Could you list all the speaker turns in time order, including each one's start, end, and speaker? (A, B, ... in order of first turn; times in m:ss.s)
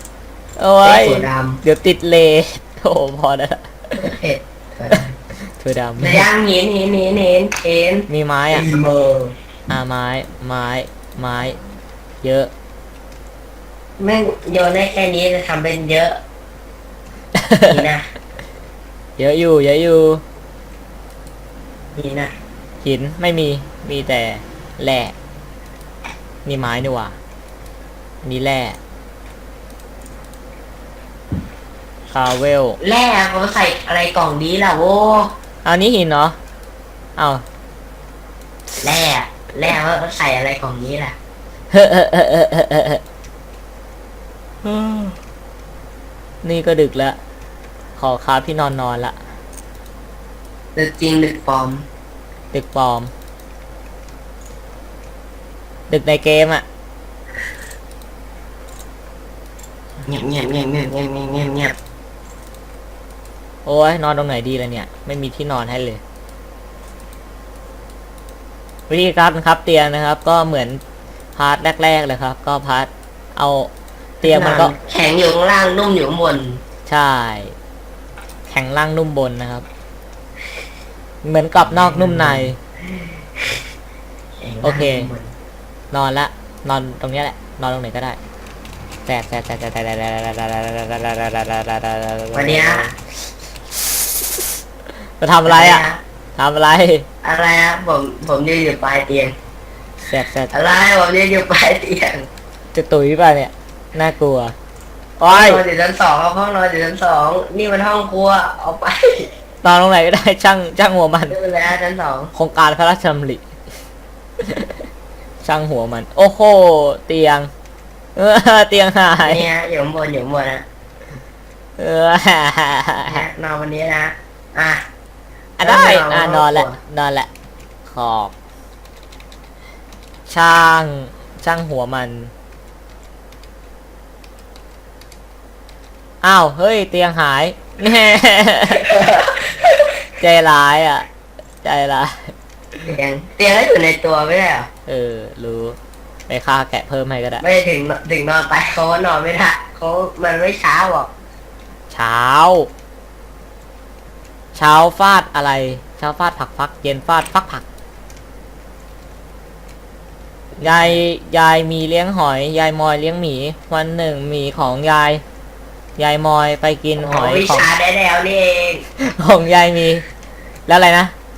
0:00.6-0:04.1 A
0:00.8-0:01.6 B
0:04.0-0:05.1 B
0:04.9-0:06.3 A
0:06.0-0:09.4 B
0:08.1-0:08.7 A
0:09.7-0:11.6 A
0:12.2-0:12.5 A
0:14.0-0:16.2 B
0:17.3-0:17.8 A
0:17.7-0:18.1 B
0:19.2-0:20.2 A
0:21.9-0:22.3 B
0:22.8-0:25.1 A
0:26.4-0:27.2 A
0:28.2-0:28.8 A
0:32.1-0:32.8 A
0:32.8-0:35.3 B
0:35.6-0:36.4 A
0:37.2-0:37.4 A
0:38.8-0:41.2 B
0:41.7-0:43.0 A
0:44.6-0:45.1 B
0:46.4-0:47.2 A
0:48.0-0:49.2 A
0:50.7-0:51.9 B
0:52.5-0:53.1 A
0:55.9-0:56.6 A
1:00.0-1:01.8 B
1:03.6-1:06.0 A
1:08.9-1:10.8 A
1:11.4-1:13.7 A
1:14.2-1:14.7 A
1:14.2-1:16.6 B
1:16.9-1:17.5 A
1:18.5-1:19.6 A
1:21.2-1:22.6 A
1:21.7-1:23.6 B
1:24.4-1:25.3 B
1:24.6-1:25.1 A
1:25.9-1:28.2 A
1:29.0-1:33.0 A
1:32.3-1:32.9 B
1:35.2-1:37.1 A
1:35.5-1:36.0 B
1:37.2-1:39.4 B
1:40.0-1:40.5 A
1:40.5-1:42.3 B
1:42.7-1:44.5 A
1:45.2-1:45.6 A
1:45.3-1:49.3 B
1:49.6-1:51.4 A
1:51.3-1:52.3 B
1:52.3-1:53.4 A
1:54.4-1:54.7 A
1:55.4-1:57.5 A
1:58.2-1:59.5 A
1:59.2-2:00.6 B
2:01.8-2:03.2 A
2:03.0-2:04.8 B
2:05.6-2:06.8 B
2:05.6-2:07.3 A
2:07.8-2:08.3 A
2:10.3-2:12.3 A
2:16.2-2:19.2 A
2:18.7-2:19.5 B
2:20.1-2:21.1 A
2:21.6-2:22.3 A
2:22.8-2:24.7 B
2:24.9-2:25.8 A
2:26.3-2:27.4 A
2:27.4-2:31.1 B
2:31.9-2:32.7 A
2:34.5-2:37.6 A
2:40.6-2:41.0 B
2:40.6-2:45.2 A
2:46.0-2:47.7 A
2:47.0-2:48.8 B
2:49.0-2:50.0 A
2:50.7-2:51.1 A